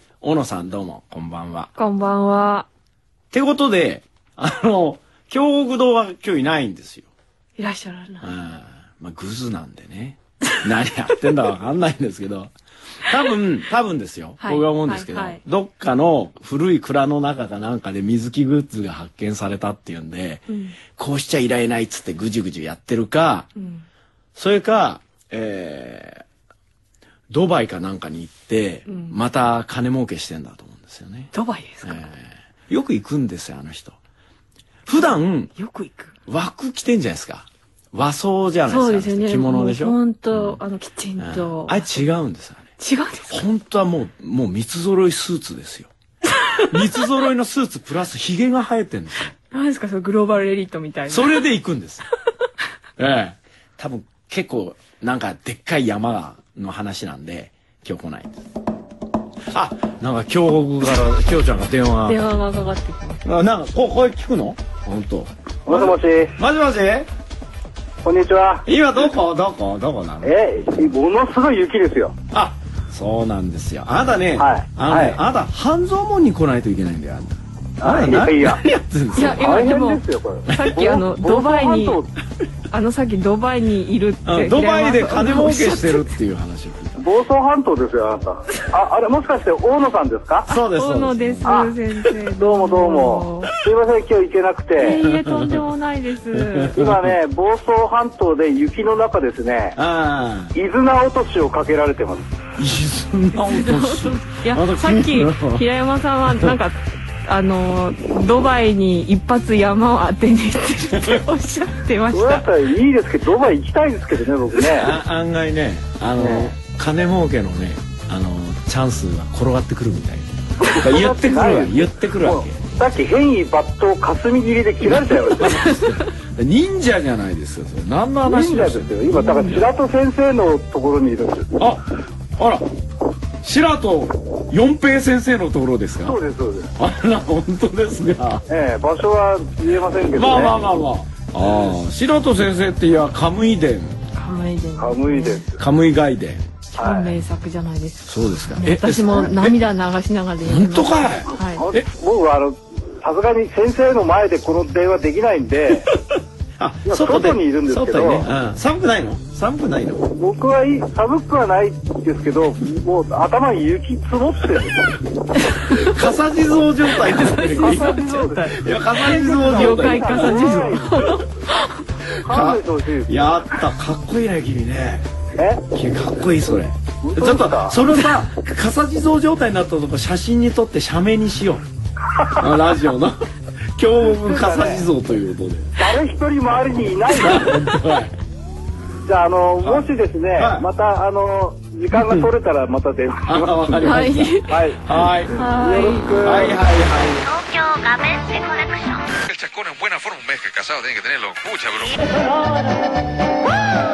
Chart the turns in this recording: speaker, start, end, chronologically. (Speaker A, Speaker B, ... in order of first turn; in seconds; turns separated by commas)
Speaker A: 0.2-1.7, Speaker B: 1.8-2.7, Speaker A: 3.3-7.1, Speaker B: 7.6-8.3, Speaker A: 8.2-23.5, Speaker B: 14.4-15.4, Speaker B: 20.5-20.8, Speaker B: 23.6-23.8, Speaker A: 24.4-26.2, Speaker A: 27.3-31.3, Speaker B: 28.9-29.2, Speaker B: 31.3-32.0, Speaker A: 31.8-34.0, Speaker A: 34.9-35.5, Speaker B: 34.9-36.2, Speaker A: 36.3-40.6, Speaker B: 38.6-41.9, Speaker A: 41.2-42.7, Speaker B: 42.8-43.5, Speaker A: 43.3-45.9, Speaker A: 46.6-49.3, Speaker B: 49.5-51.4, Speaker A: 51.1-52.0, Speaker A: 53.0-58.4, Speaker A: 59.5-62.2, Speaker B: 62.0-63.2, Speaker A: 63.2-67.1, Speaker C: 65.7-66.3, Speaker C: 68.0-68.6, Speaker A: 68.6-70.3, Speaker C: 70.2-72.2, Speaker A: 72.3-79.5, Speaker C: 74.4-75.2, Speaker C: 77.8-78.6, Speaker B: 79.1-82.0, Speaker C: 79.2-82.1, Speaker B: 82.7-86.2, Speaker A: 84.2-87.0, Speaker C: 87.0-90.5, Speaker A: 90.5-91.5, Speaker B: 90.5-93.5, Speaker C: 91.5-91.7, Speaker C: 92.3-95.0, Speaker B: 94.8-96.8, Speaker A: 95.1-95.6, Speaker A: 96.3-96.9, Speaker C: 96.7-99.8, Speaker A: 99.8-100.5, Speaker C: 100.5-102.3, Speaker A: 102.6-105.6, Speaker B: 103.3-112.5, Speaker A: 106.3-106.5, Speaker C: 112.1-114.9, Speaker A: 114.5-122.7, Speaker C: 116.2-116.5, Speaker C: 120.8-125.6, Speaker A: 125.3-129.7, Speaker C: 128.3-131.6, Speaker A: 131.6-131.8, Speaker A: 132.4-132.7, Speaker A: 133.4-136.2, Speaker C: 136.0-136.7, Speaker A: 136.8-138.4, Speaker C: 138.5-140.6, Speaker A: 140.2-144.0, Speaker B: 144.1-145.5, Speaker C: 144.8-145.5, Speaker A: 145.6-146.5, Speaker B: 146.7-151.6, Speaker C: 146.8-147.1, Speaker A: 148.1-149.6, Speaker A: 150.4-151.9, Speaker C: 151.4-155.9, Speaker A: 156.6-160.1, Speaker C: 156.9-158.3, Speaker C: 160.1-165.0, Speaker B: 165.4-165.9, Speaker A: 165.7-171.2, Speaker B: 166.9-171.9, Speaker C: 167.5-171.1, Speaker A: 172.1-175.1, Speaker C: 172.2-173.6, Speaker C: 175.4-175.6, Speaker A: 175.7-181.7, Speaker C: 177.0-177.8, Speaker C: 182.1-182.4, Speaker A: 182.2-185.7, Speaker C: 184.2-184.8, Speaker C: 185.8-187.5, Speaker A: 187.2-188.1, Speaker C: 189.1-193.7, Speaker A: 190.3-190.7, Speaker A: 191.9-192.3, Speaker A: 193.2-195.4, Speaker B: 193.8-194.6, Speaker C: 194.5-194.8, Speaker B: 195.3-196.2, Speaker C: 195.4-196.6, Speaker A: 196.2-197.2, Speaker D: 197.2-199.2, Speaker E: 199.3-202.1